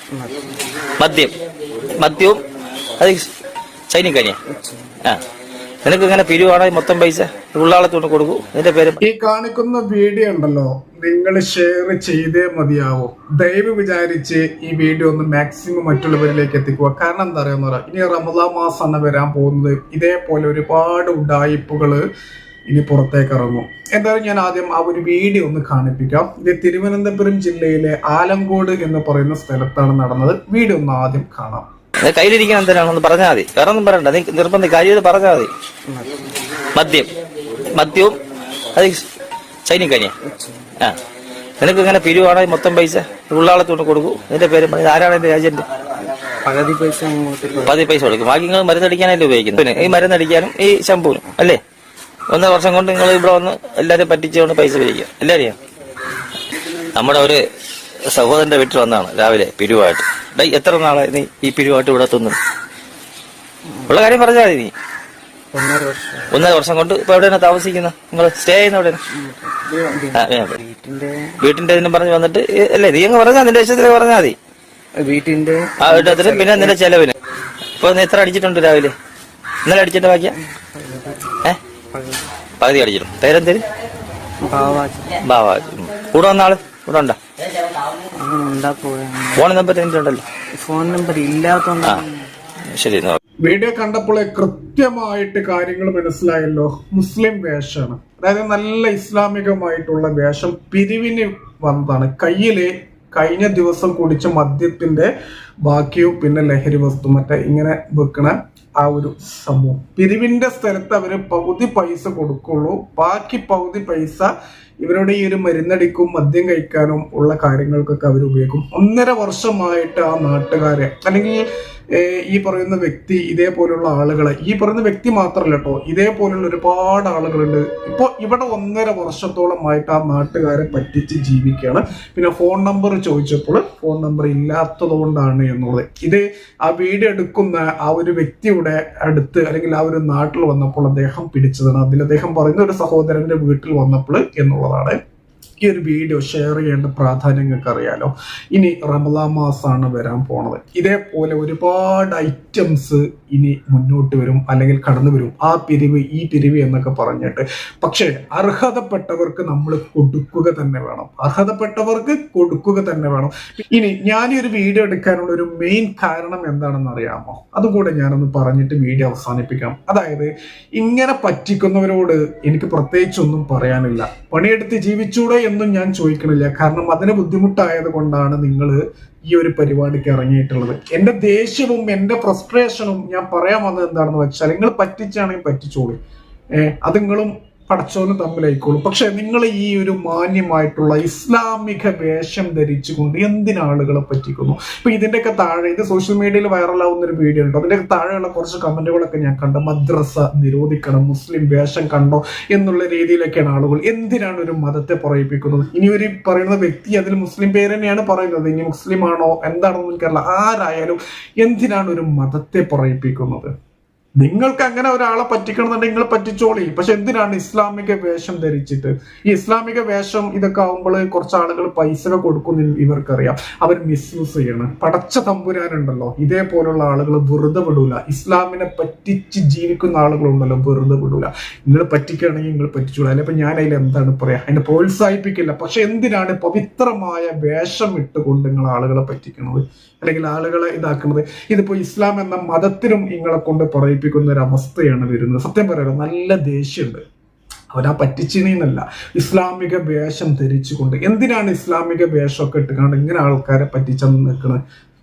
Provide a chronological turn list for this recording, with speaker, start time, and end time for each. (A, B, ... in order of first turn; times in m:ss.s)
0:00.1-0:00.6 A
0:01.0-0:01.3 B
0:01.9-0:02.4 B
0:03.0-0:03.3 B
0:03.9-0:04.4 B
0:04.5-0:04.9 A
0:05.8-0:09.0 B
0:09.0-0:22.0 C
0:22.7-0:31.7 C
0:32.0-0:35.5 B
0:35.9-0:36.4 A
0:36.7-0:37.1 B
0:37.7-0:38.2 B
0:38.7-0:39.0 B
0:39.6-0:40.1 B
0:40.2-0:40.7 A
0:41.6-0:45.6 B
0:46.4-0:47.7 A
0:47.6-0:51.6 B
0:52.3-0:55.6 B
0:56.9-0:57.4 B
0:58.1-1:02.4 B
1:03.8-1:04.7 B
1:05.5-1:06.4 A
1:06.3-1:09.0 B
1:09.1-1:11.4 A
1:10.1-1:10.6 B
1:11.4-1:14.3 B
1:15.0-1:16.7 A
1:15.8-1:17.1 B
1:17.8-1:18.9 B
1:19.6-1:20.4 B
1:20.4-1:21.4 A
1:21.9-1:22.3 A
1:22.6-1:23.6 B
1:24.4-1:25.2 A
1:25.2-1:27.2 B
1:28.1-1:29.4 A
1:29.3-1:30.2 B
1:30.6-1:32.3 A
1:32.7-1:33.2 B
1:33.4-1:45.1 C
1:45.6-2:25.0 C
2:25.6-3:06.0 C
3:06.6-3:33.5 C
3:34.2-4:07.0 C
4:07.7-4:14.6 C